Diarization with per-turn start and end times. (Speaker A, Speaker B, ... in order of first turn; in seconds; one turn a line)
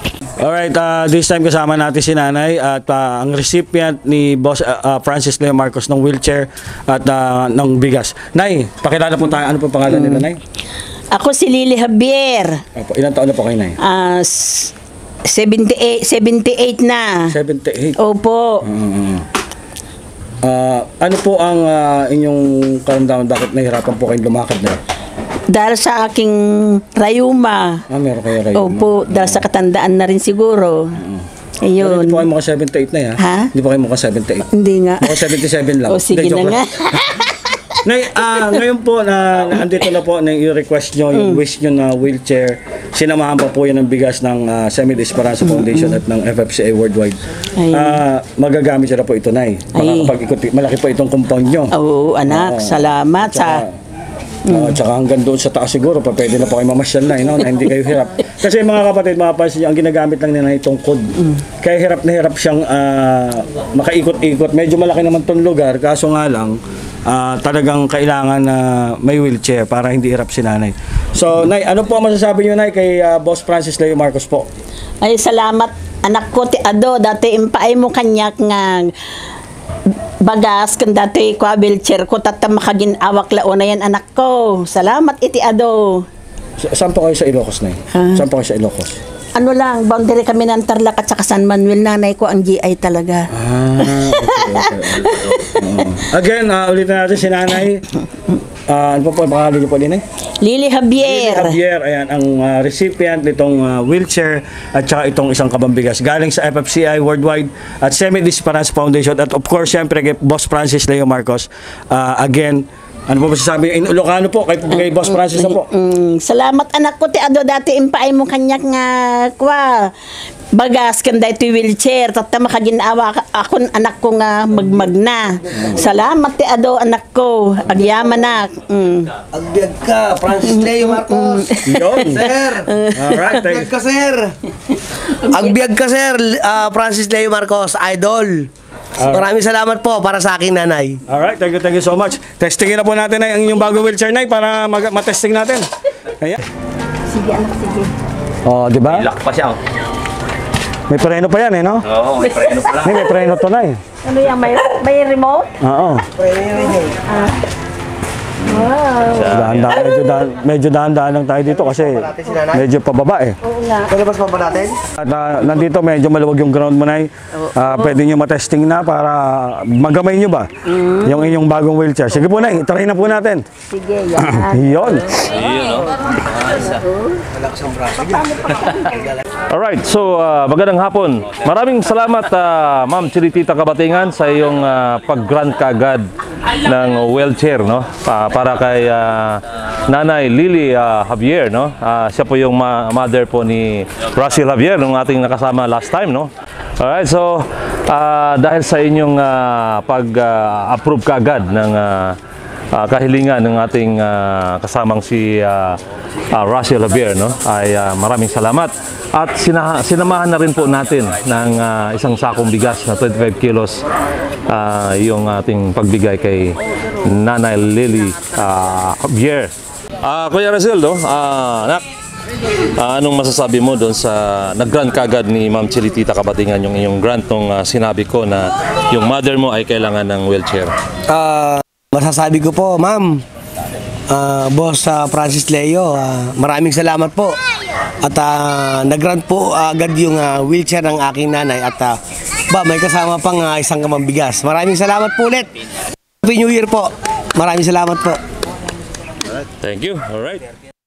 Speaker A: 0.4-10.4
Speaker B: 11.1-12.6
Speaker A: 12.8-13.8
Speaker B: 13.8-14.7
Speaker B: 15.3-17.2
Speaker A: 17.3-18.0
Speaker B: 18.0-18.6
Speaker A: 18.6-19.3
Speaker A: 20.4-24.8
Speaker B: 25.5-27.8
Speaker A: 27.9-29.4
Speaker B: 28.5-30.9
Speaker A: 31.0-31.2
Speaker B: 31.7-32.2
Speaker A: 31.8-34.5
Speaker B: 33.2-33.5
Speaker B: 34.5-37.8
Speaker A: 35.0-36.6
Speaker A: 37.8-47.2
Speaker B: 45.5-46.0
Speaker B: 47.6-48.0
Speaker A: 47.7-51.7
Speaker B: 49.8-50.1
Speaker B: 51.8-53.6
Speaker A: 52.3-53.7
Speaker A: 54.5-74.5
Speaker B: 75.0-78.9
Speaker B: 80.2-86.1
Speaker A: 86.6-89.0
Speaker B: 87.9-88.2
Speaker B: 89.4-95.6
Speaker A: 93.3-97.9
Speaker A: 98.7-100.0
Speaker B: 100.4-101.6
Speaker A: 101.0-115.7
Speaker B: 114.7-119.9
Speaker B: 120.5-129.2
Speaker C: 129.3-134.3
Speaker B: 130.6-133.1
Speaker A: 131.6-132.3
Speaker A: 132.9-133.7
Speaker C: 135.1-138.5
Speaker A: 139.0-139.3
Speaker C: 139.0-141.0
Speaker A: 141.1-146.4
Speaker B: 147.1-147.9
Speaker A: 148.4-149.1
Speaker D: 148.9-149.6
Speaker A: 150.9-151.8
Speaker D: 151.9-153.0
Speaker A: 152.7-153.8
Speaker B: 154.0-155.5
Speaker A: 155.6-156.1
Speaker C: 156.2-157.0
Speaker B: 158.4-159.2
Speaker D: 159.1-159.8
Speaker A: 159.3-163.4
Speaker C: 161.5-162.6
Speaker B: 163.4-163.9
Speaker C: 163.9-164.8
Speaker A: 165.0-173.4
Speaker B: 170.8-171.1
Speaker B: 173.7-174.9
Speaker A: 174.2-175.2
Speaker D: 175.2-175.9
Speaker C: 177.3-178.3
Speaker D: 179.5-202.2
Speaker D: 202.7-205.8
Speaker D: 206.3-213.8
Speaker D: 214.5-221.8
Speaker D: 222.8-230.7
Speaker C: 231.1-233.2
Speaker C: 234.1-237.4
Speaker C: 238.0-242.0
Speaker C: 242.5-245.5
Speaker C: 246.2-248.2
Speaker D: 249.6-250.5